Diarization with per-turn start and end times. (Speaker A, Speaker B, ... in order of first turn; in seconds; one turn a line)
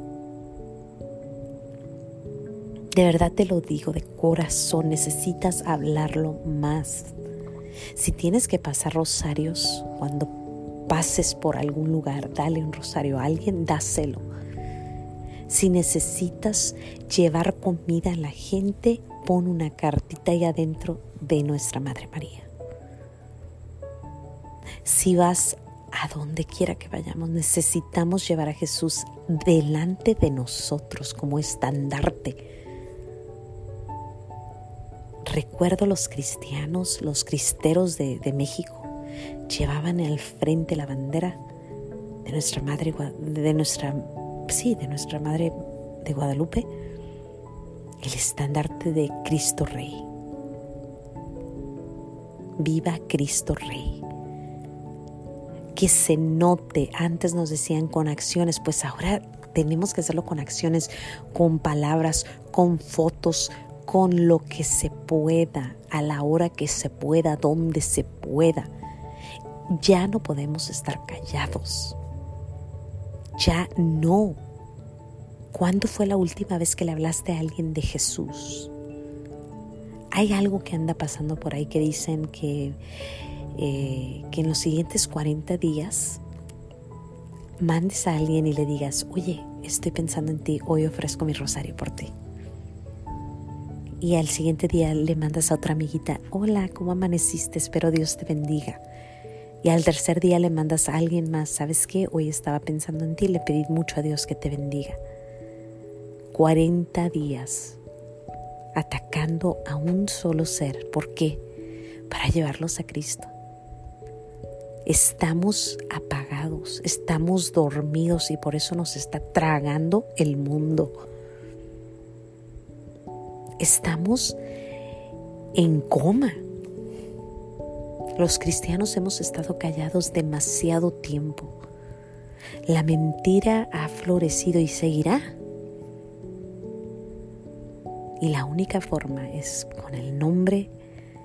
Speaker A: 2.9-7.1
Speaker A: 7.9-10.3
Speaker A: 10.9-14.2
Speaker A: 15.5-22.5
Speaker A: 24.8-32.4
Speaker A: 35.2-38.9
Speaker A: 39.5-41.4
Speaker A: 42.2-46.7
Speaker A: 48.0-50.1
Speaker A: 52.6-54.0
Speaker A: 55.7-68.7
Speaker A: 69.7-72.0
Speaker A: 73.3-74.4
Speaker A: 75.5-78.7
Speaker A: 80.1-82.8
Speaker A: 83.5-86.2
Speaker A: 87.6-92.1
Speaker A: 94.0-98.8
Speaker A: 99.6-105.0
Speaker A: 106.3-107.8
Speaker A: 108.7-111.4
Speaker A: 112.1-113.3
Speaker A: 114.8-121.0
Speaker A: 123.6-124.4
Speaker A: 125.5-126.4
Speaker A: 128.2-131.6
Speaker A: 132.7-135.3
Speaker A: 138.2-140.7